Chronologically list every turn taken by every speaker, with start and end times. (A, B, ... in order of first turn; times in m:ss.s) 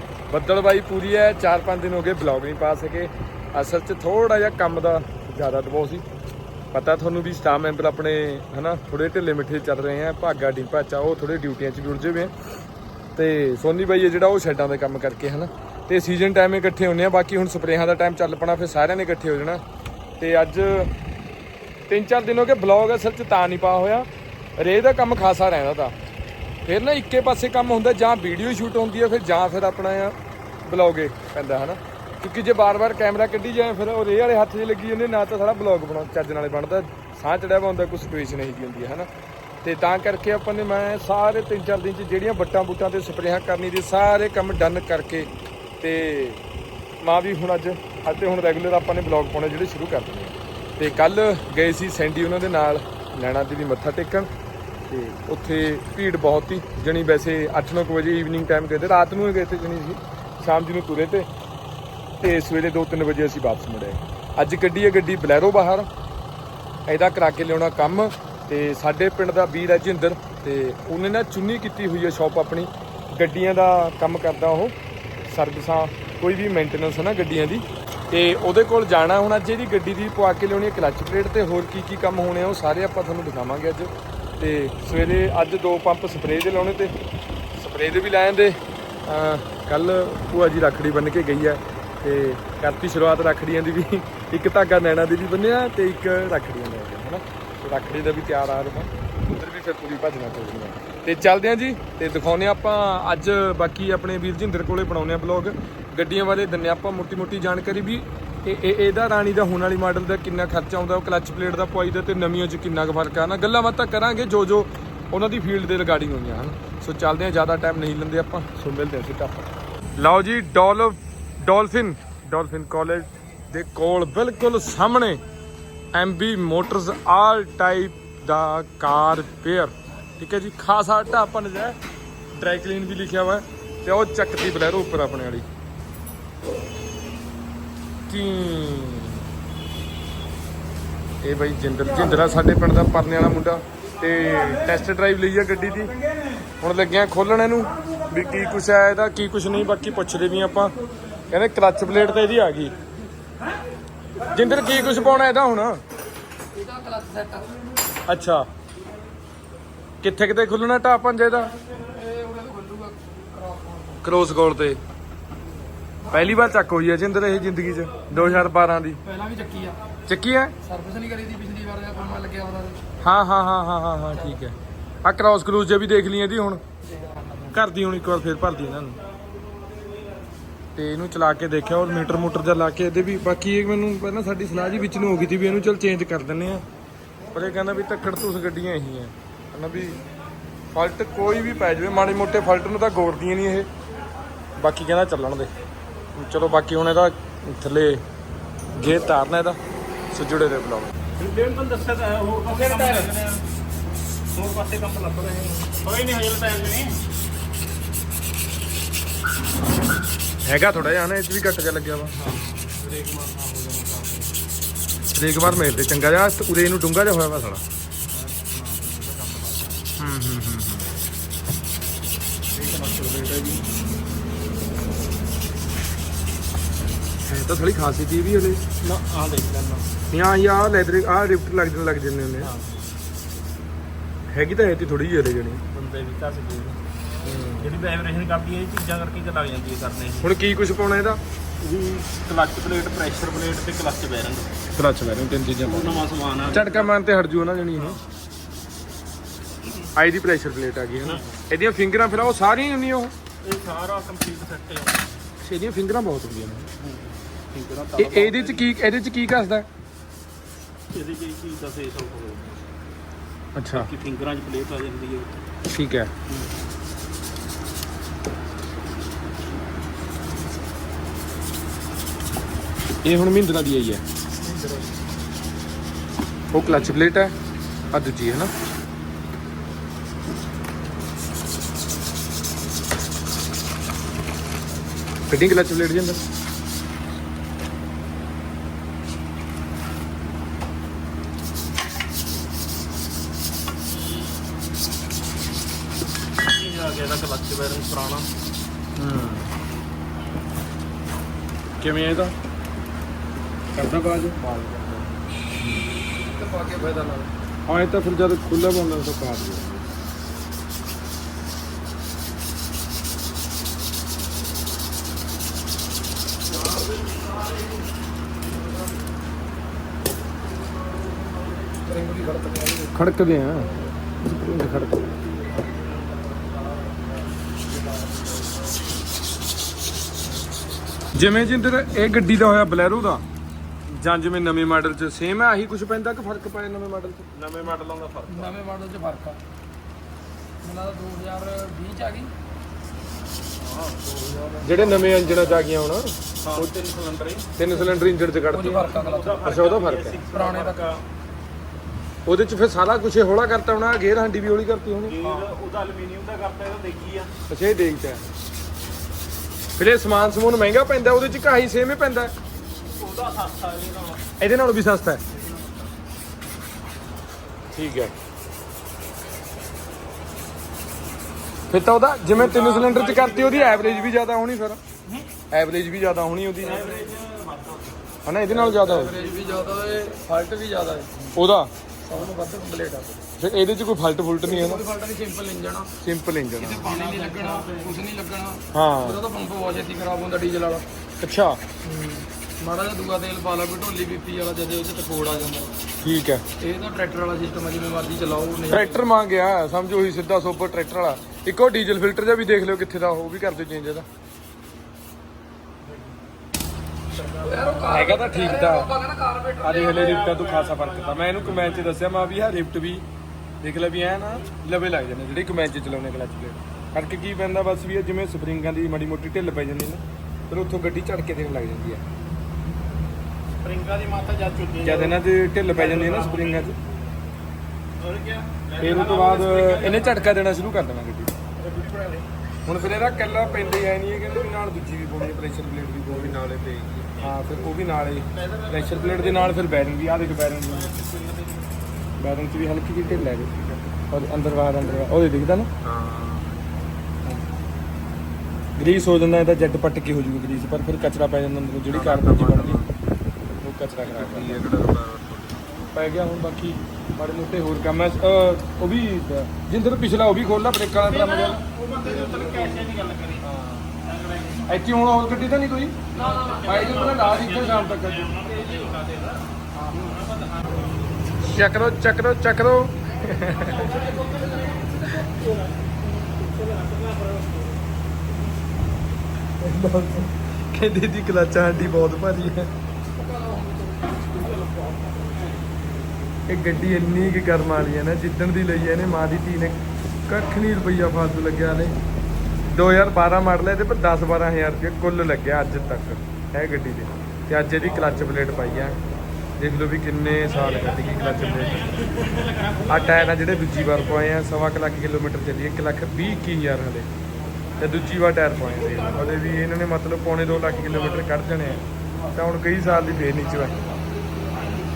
0:00.3-0:06.0 A
0:06.7-0:12.3 A
0:13.2-0:19.6 A
0:20.2-0:20.9 A
0:21.9-0:25.9 A
0:26.7-0:39.1 A
0:39.6-0:45.3 A
0:45.8-0:46.4 A
0:47.0-0:54.3 A
0:54.9-1:01.3 A
1:02.2-1:05.9 A
1:06.9-1:26.9 A
1:27.6-2:05.2 A
2:05.9-2:11.8 A
2:12.4-2:15.5 A
2:18.1-2:19.2 A
2:21.2-2:25.9 A
2:26.6-2:30.8 A
2:31.3-2:32.7 A
2:34.3-2:35.8 A
2:36.5-2:37.6 B
2:38.1-2:38.5 A
2:40.0-2:41.6 A
2:41.7-2:44.0 B
2:44.0-2:44.8 A
2:46.1-2:49.0 A
2:48.1-2:48.5 B
2:49.0-2:49.8 B
2:50.1-2:50.6 A
2:50.6-2:52.8 B
2:53.0-2:56.6 A
2:57.0-2:57.6 B
2:57.5-2:59.0 A
3:00.8-3:06.6 A
3:07.3-3:10.0 A
3:10.7-3:13.7 A
3:14.6-3:15.5 A
3:16.2-3:18.0 A
3:18.7-3:19.6 A
3:20.1-3:21.0 A
3:21.2-3:23.4 C
3:22.7-3:23.1 B
3:24.4-3:27.0 C
3:30.4-3:32.1 A
3:32.2-3:34.3 C
3:35.1-3:37.6 A
3:38.1-3:39.8 C
3:40.0-3:40.9 A
3:42.5-3:43.6 C
3:47.2-3:48.6 A
3:48.8-3:49.9 C
3:50.1-3:52.5 A
3:52.4-3:52.8 C
3:54.3-3:55.6 A
3:55.7-3:56.8 C
3:57.2-3:57.7 A
3:57.6-4:00.3 C
4:00.2-4:01.2 A
4:01.6-4:04.5 C
4:04.7-4:08.0 A
4:05.6-4:06.9 C
4:09.9-4:13.1 A
4:11.0-4:11.3 C
4:13.4-4:15.1 C
4:15.4-4:16.7 A
4:16.8-4:18.7 C
4:18.0-4:19.7 A
4:20.9-4:22.7 C
4:23.6-4:23.9 A
4:23.7-4:25.3 C
4:25.7-4:26.1 A
4:33.0-4:34.0 A
4:34.5-4:34.8 C
4:36.5-4:37.3 A
4:37.9-4:38.5 A
4:45.3-4:46.2 A
4:56.4-4:58.3 C
4:59.0-4:59.5 A
5:01.8-5:02.3 A
5:03.8-5:05.0 A
5:05.6-5:05.8 A
5:06.3-5:07.3 B
5:07.7-5:09.8 A
5:21.8-5:22.9 B
5:22.9-5:25.1 A
5:31.1-5:33.2 A
5:33.9-5:37.3 A
5:37.3-5:38.6 C
5:38.3-5:39.4 B
5:40.6-5:42.3 B
5:43.6-5:45.5 C
5:44.6-5:46.2 A
5:46.4-5:47.5 C
5:47.6-5:50.2 A
5:47.7-5:49.5 B
5:48.9-5:51.0 C
5:50.3-5:50.8 B
5:52.3-5:55.2 A
5:55.1-5:57.3 C
5:57.5-5:58.2 A
5:59.8-6:02.3 A
6:02.9-6:04.2 C
6:04.4-6:05.2 A
6:07.7-6:08.1 A
6:11.7-6:14.8 A
6:12.2-6:14.2 C
6:15.5-6:17.1 A
6:16.6-6:18.1 C
6:18.2-6:19.2 A
6:18.5-6:21.3 B
6:19.2-6:20.0 C
6:21.3-6:21.7 A
6:22.0-6:23.2 B
6:23.4-6:24.8 A
6:24.4-6:25.9 B
6:26.0-6:26.9 A
6:26.6-6:30.8 B
6:26.8-6:28.0 C
6:28.7-6:29.2 A
6:31.2-6:31.6 A
6:31.8-6:35.7 B
6:36.0-6:36.4 A
6:36.6-6:39.1 B
6:38.7-6:44.0 A
6:47.3-6:50.3 B
6:47.8-6:49.0 A
6:49.6-6:53.0 A
6:49.8-6:52.1 C
6:53.6-7:02.0 A
7:03.6-7:06.9 C
7:04.8-7:06.8 A
7:08.0-7:10.4 C
7:08.8-7:11.3 A
7:11.6-7:12.3 C
7:12.6-7:16.4 A
7:16.1-7:17.4 C
7:17.2-7:20.9 A
7:18.3-7:19.7 C
7:20.6-7:21.7 C
7:22.2-7:23.6 A
7:24.1-7:25.7 A
7:25.8-7:26.5 C
7:28.8-7:32.9 A
7:31.9-7:32.7 C
7:33.6-7:34.7 A
7:34.0-7:35.6 C
7:35.9-7:41.7 A
7:41.5-7:43.6 C
7:44.7-7:46.0 A
7:46.2-7:47.2 B
7:46.3-7:49.4 C
7:46.6-7:48.3 A
7:49.9-7:50.9 C
7:51.4-7:54.0 A
7:53.9-7:55.5 B
7:56.4-7:57.6 C
7:59.6-8:02.7 A
8:03.1-8:05.4 B
8:06.5-8:12.0 A
8:12.7-8:19.0 A
8:19.6-8:22.2 A
8:20.7-8:23.1 C
8:22.8-8:27.1 A
8:27.8-8:33.8 A